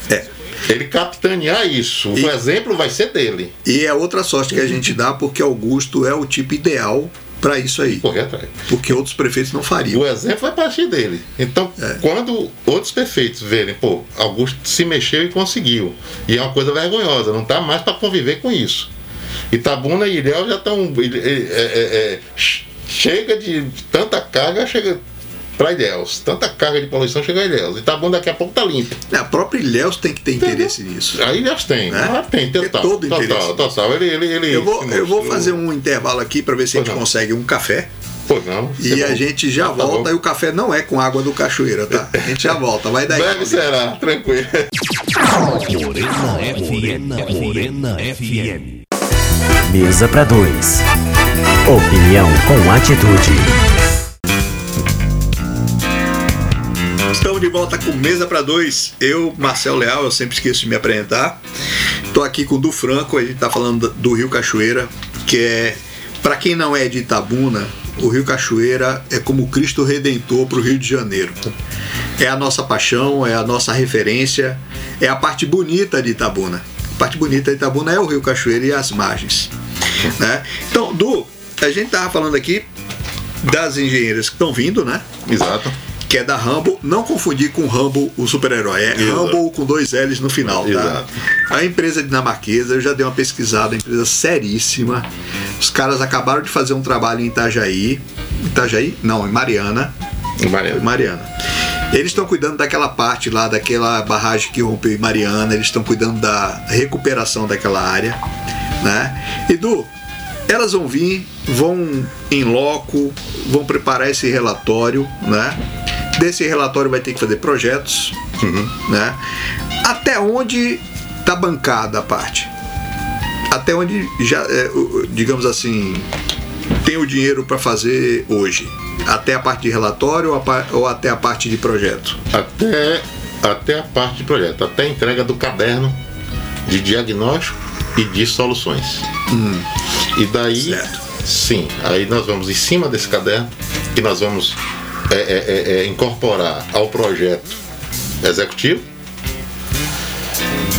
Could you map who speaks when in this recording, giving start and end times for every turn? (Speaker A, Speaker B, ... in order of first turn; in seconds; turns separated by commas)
Speaker A: 0.7-3.5, Speaker B: 3.6-8.0, Speaker A: 7.9-8.6, Speaker B: 8.7-10.0, Speaker A: 9.9-18.9, Speaker A: 19.5-25.0, Speaker A: 25.6-29.0, Speaker B: 29.1-31.2, Speaker A: 30.4-35.6, Speaker B: 31.9-33.7, Speaker B: 34.5-37.9, Speaker A: 36.7-37.1, Speaker A: 38.3-40.1, Speaker B: 38.8-43.6, Speaker A: 42.0-44.7, Speaker C: 45.3-48.8, Speaker D: 49.7-50.9, Speaker D: 51.7-53.5, Speaker B: 57.1-61.4, Speaker B: 62.1-71.4, Speaker B: 72.2-82.7, Speaker B: 83.4-85.0, Speaker A: 85.2-85.8, Speaker B: 86.1-95.1, Speaker A: 88.9-89.4, Speaker A: 90.4-91.1, Speaker B: 95.6-99.9, Speaker A: 100.4-100.8, Speaker B: 100.7-101.3, Speaker B: 101.9-108.2, Speaker B: 108.8-109.9, Speaker B: 110.5-115.6, Speaker B: 116.2-118.2, Speaker A: 118.4-118.8, Speaker B: 118.8-119.2, Speaker B: 119.8-122.5, Speaker B: 123.5-126.1, Speaker B: 126.8-132.2, Speaker A: 132.3-136.0, Speaker A: 136.7-139.1, Speaker B: 139.3-139.7, Speaker A: 140.1-144.6, Speaker B: 140.6-141.0, Speaker A: 145.1-147.6, Speaker A: 148.2-148.8